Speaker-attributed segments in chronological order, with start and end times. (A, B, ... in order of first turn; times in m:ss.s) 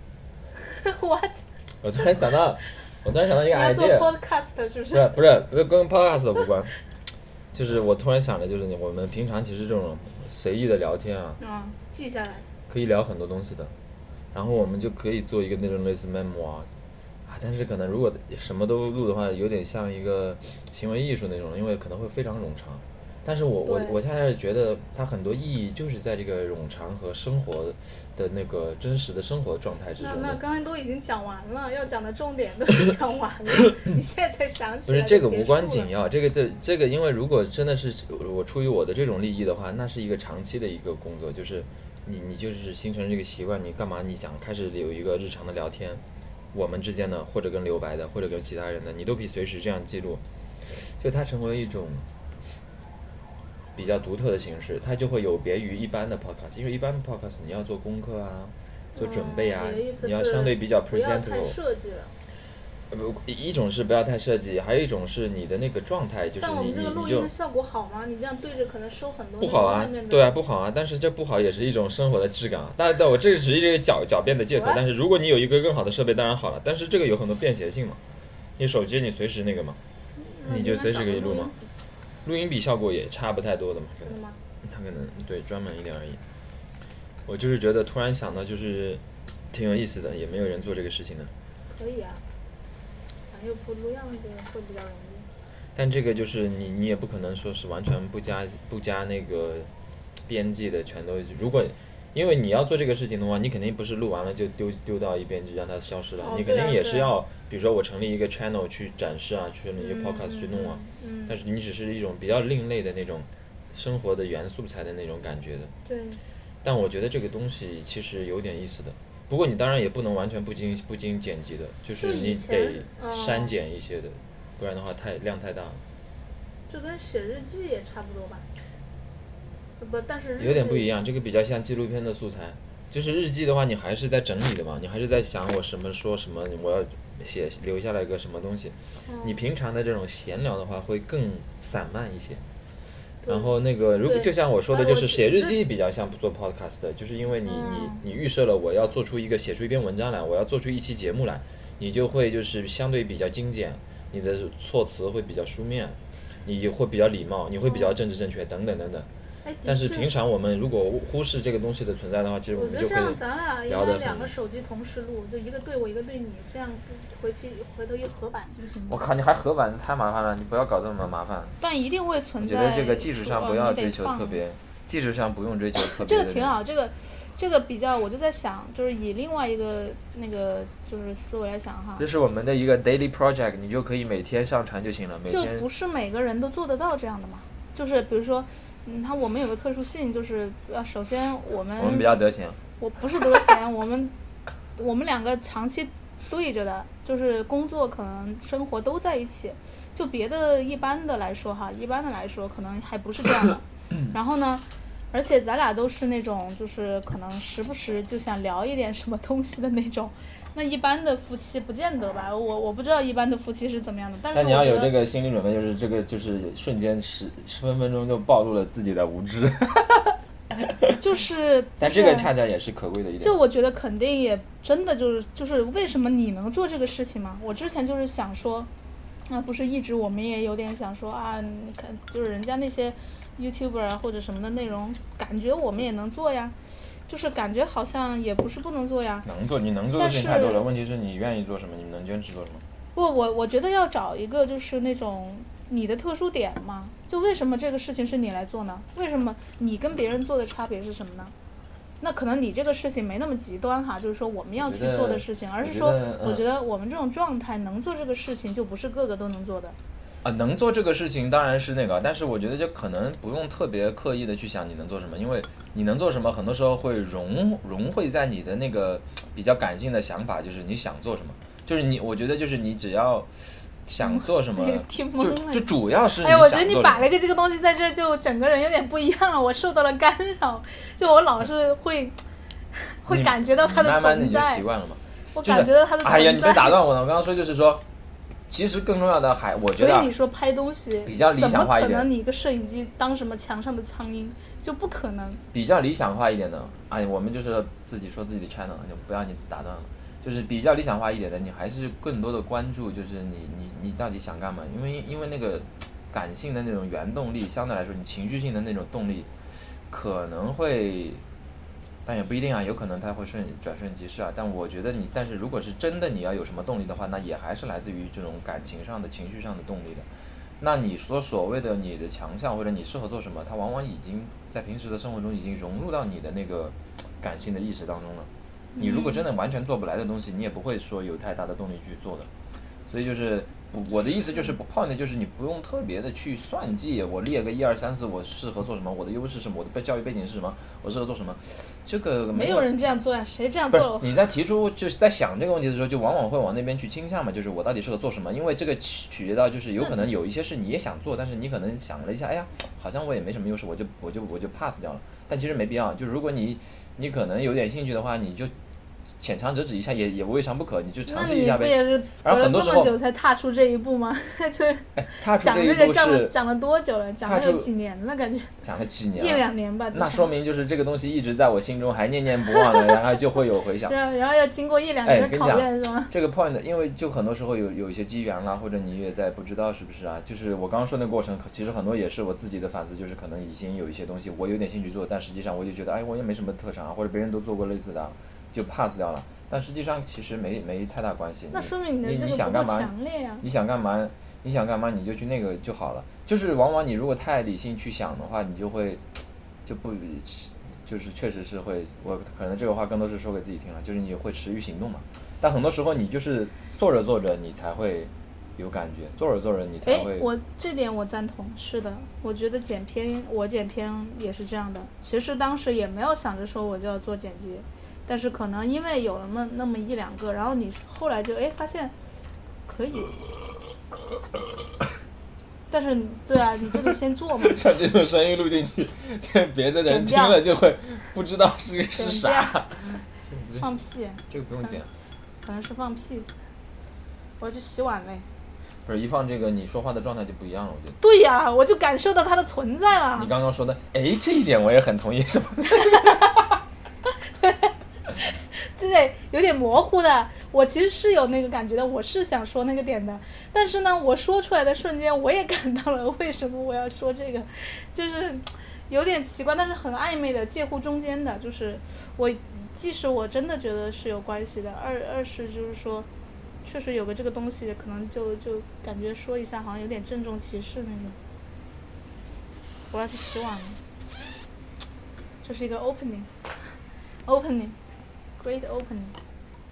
0:00.6-0:01.4 A
0:01.8-0:04.1 B
0:03.5-0:05.1 A
0:04.9-0:06.7 B
0:07.5-0:11.4 B
0:11.4-0:12.4 A
0:12.7-0:13.7 B
0:14.3-0:16.7 B
0:17.2-0:30.4 B
0:23.6-0:24.0 A
0:30.0-0:35.9 A
0:34.9-0:52.0 B
0:53.7-1:01.6 B
0:58.9-1:02.1 A
1:02.9-1:07.3 B
1:06.4-1:10.3 A
1:09.4-1:18.0 B
1:14.5-1:14.8 A
1:18.6-1:19.8 B
1:20.2-1:21.5 A
1:20.4-1:21.5 B
1:22.2-1:26.2 B
1:24.0-1:24.4 A
1:27.2-1:31.3 B
1:31.7-1:32.2 A
1:33.3-1:35.3 A
1:35.7-1:39.7 B
1:40.3-1:55.7 B
1:46.2-1:47.1 A
1:49.8-1:51.4 A
1:55.8-1:56.2 A
1:56.6-2:05.8 B
2:02.0-2:03.5 A
2:06.7-2:08.5 A
2:09.8-2:10.9 A
2:10.4-2:22.4 B
2:19.1-2:19.4 A
2:23.2-2:23.5 A
2:23.3-2:39.1 B
2:24.0-2:25.6 A
2:27.4-2:28.0 A
2:37.6-2:37.9 A
2:39.4-2:40.1 A
2:39.6-2:44.3 B
2:42.5-2:49.0 A
2:48.9-2:51.6 B
2:51.6-2:54.4 A
2:52.4-2:56.5 B
2:55.8-3:02.0 A
3:02.0-3:05.7 B
3:05.3-3:12.1 A
3:11.8-3:12.6 B
3:12.8-3:14.1 A
3:14.8-3:34.9 A
3:34.3-3:41.0 B
3:41.0-3:42.3 A
3:41.8-3:43.4 B
3:43.2-3:48.7 A
3:49.3-3:56.5 A
3:57.1-3:59.2 A
3:59.2-4:02.6 B
4:00.0-4:00.6 A
4:02.9-4:11.3 A
4:12.0-4:19.8 A
4:14.6-4:16.4 B
4:20.2-4:33.3 B
4:33.9-4:37.1 B
4:33.9-4:42.2 A
4:42.9-4:44.6 A
4:43.1-4:47.8 B
4:45.3-4:46.8 A
4:48.5-4:50.1 B
4:49.7-4:55.4 A
4:51.0-4:52.1 B
4:55.5-5:09.3 B
5:09.9-5:11.2 B
5:12.0-5:20.0 B
5:20.6-5:32.3 B
5:28.7-5:29.2 A
5:32.9-5:42.7 B
5:42.3-5:44.1 A
5:43.7-5:58.5 B
5:59.2-6:02.9 B
6:01.1-6:08.5 A
6:05.0-6:06.3 B
6:07.2-6:07.7 B
6:08.6-6:14.0 B
6:09.2-6:10.3 A
6:12.5-6:12.9 A
6:13.9-6:16.1 A
6:15.0-6:50.3 B
6:31.5-6:33.4 A
6:49.8-7:01.9 A
7:02.6-7:03.2 A
7:05.7-7:07.6 A
7:06.8-7:13.7 B
7:09.8-7:10.4 A
7:11.9-7:12.5 A
7:13.6-7:14.7 A
7:14.3-7:14.9 B
7:15.4-7:16.3 A
7:17.4-7:18.2 A
7:18.8-7:21.0 B
7:21.0-7:23.3 A
7:23.1-7:26.4 B
7:25.8-7:26.3 A
7:27.4-7:27.7 A
7:28.5-7:46.1 A
7:46.6-7:51.2 A
7:52.9-7:53.8 A
7:55.4-7:56.3 A
7:57.2-7:57.8 A
7:58.4-7:59.2 A